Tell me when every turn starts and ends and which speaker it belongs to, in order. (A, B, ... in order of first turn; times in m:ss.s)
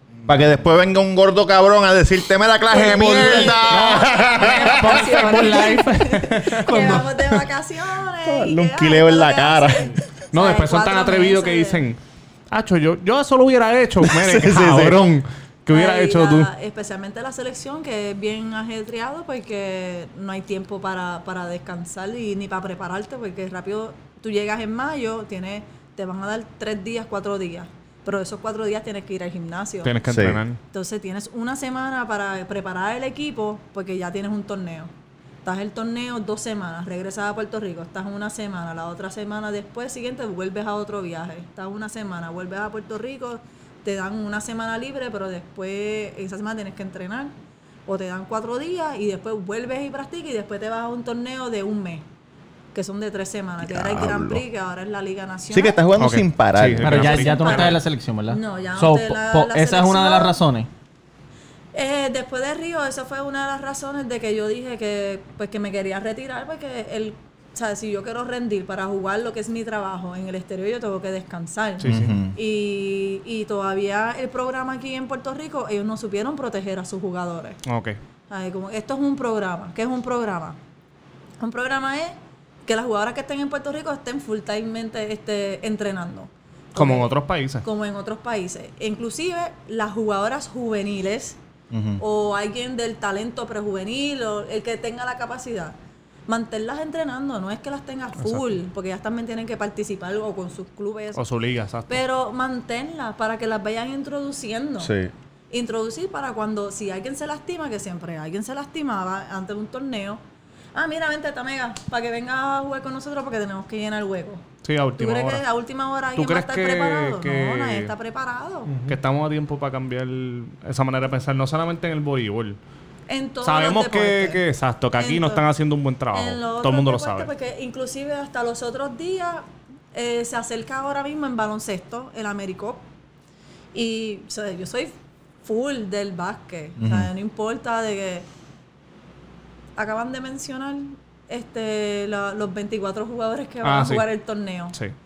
0:00.3-0:05.3 A
0:02.7-0:11.9 B
0:03.0-0:04.1 C
0:03.3-0:07.3 D
0:06.7-0:07.0 C
0:08.3-0:09.9 A
0:10.3-0:12.0 D
0:12.5-0:16.5 D
0:14.1-0:15.0 A
0:15.7-0:30.0 B
0:29.8-0:30.6 D
0:30.1-0:30.4 A
0:30.7-0:34.9 B
0:35.4-0:47.3 B
0:47.9-0:52.0 B
0:52.7-0:55.8 B
0:53.6-0:54.4 A
0:55.5-0:57.2 A
0:56.0-0:57.8 D
0:56.8-1:00.7 C
0:57.1-1:00.4 B
1:01.7-1:17.6 B
1:11.8-1:12.2 D
1:11.8-1:12.4 A
1:17.7-1:18.0 D
1:18.3-1:20.6 B
1:21.4-1:22.2 B
1:22.7-1:31.4 B
1:26.8-1:27.6 D
1:31.7-1:32.0 A
1:32.0-1:35.8 B
1:36.3-1:41.2 B
1:38.2-1:38.5 D
1:41.2-1:42.0 D
1:41.9-1:44.9 B
1:44.8-1:45.1 A
1:45.5-1:50.2 B
1:50.8-1:54.4 B
1:54.6-1:55.4 D
1:55.0-1:58.8 B
1:56.2-1:57.9 D
1:58.8-2:02.6 D
2:03.1-2:04.4 B
2:03.4-2:07.3 D
2:05.0-2:05.4 B
2:06.1-2:12.8 B
2:13.7-2:18.3 B
2:16.8-2:17.1 A
2:19.8-2:24.8 B
2:23.6-2:24.0 D